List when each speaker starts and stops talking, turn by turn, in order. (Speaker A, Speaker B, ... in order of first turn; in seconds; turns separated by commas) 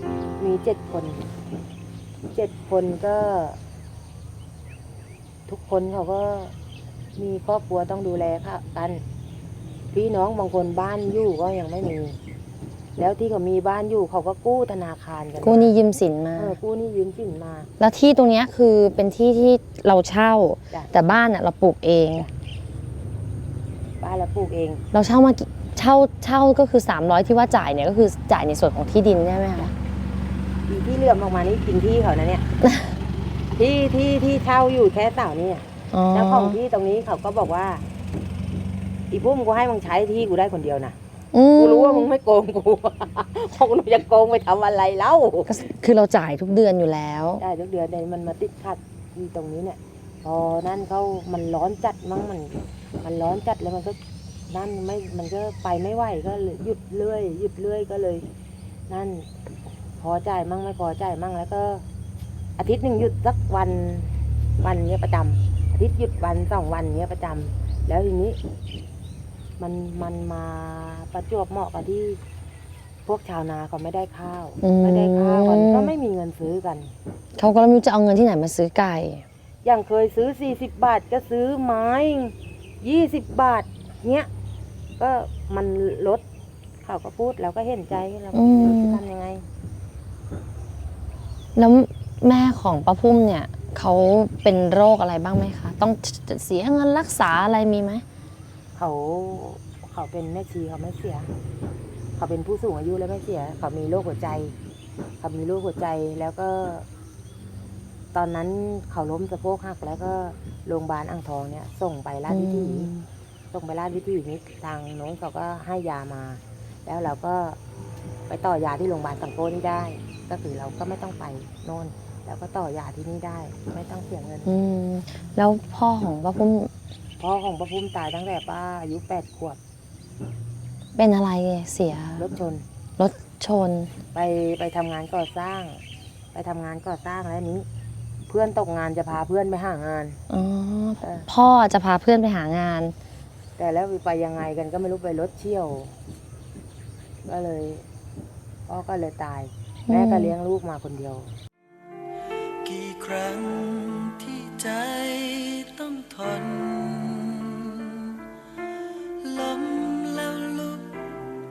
Speaker A: 0.4-1.3, Speaker A: 2.3-3.6, Speaker A: 5.5-6.5, Speaker A: 7.2-9.0, Speaker A: 9.9-12.2, Speaker A: 13.0-15.8, Speaker B: 15.4-16.6, Speaker A: 16.4-17.7, Speaker B: 17.8-22.3, Speaker A: 24.0-24.8, Speaker B: 24.9-29.7, Speaker A: 30.7-32.5, Speaker B: 32.6-32.9, Speaker A: 33.5-37.8, Speaker B: 35.9-36.6, Speaker A: 39.1-41.0, Speaker B: 41.3-42.1, Speaker A: 41.5-45.6, Speaker B: 45.5-47.4, Speaker A: 47.4-54.0, Speaker A: 54.5-58.2, Speaker A: 58.9-59.3, Speaker A: 60.0-61.8, Speaker A: 62.6-68.4, Speaker A: 69.6-72.2, Speaker A: 73.0-76.9, Speaker B: 74.6-75.9, Speaker B: 77.4-79.2, Speaker A: 79.6-84.3, Speaker A: 85.0-86.2, Speaker A: 86.8-89.5, Speaker B: 88.3-89.0, Speaker B: 91.5-98.0, Speaker A: 98.7-101.3, Speaker A: 102.2-104.5, Speaker A: 105.2-106.9, Speaker A: 108.1-112.9, Speaker B: 112.3-113.0, Speaker A: 113.5-117.6, Speaker A: 118.3-124.6, Speaker B: 124.5-126.7, Speaker A: 127.2-129.6, Speaker B: 130.9-132.3, Speaker A: 132.2-132.6, Speaker B: 133.0-133.9, Speaker A: 134.1-135.8, Speaker A: 136.3-137.7, Speaker A: 138.3-140.2, Speaker B: 140.3-142.9, Speaker A: 141.0-141.3, Speaker A: 143.6-145.9, Speaker A: 147.2-147.8, Speaker A: 148.7-151.3, Speaker B: 149.9-150.3, Speaker C: 152.6-158.2, Speaker C: 159.2-161.1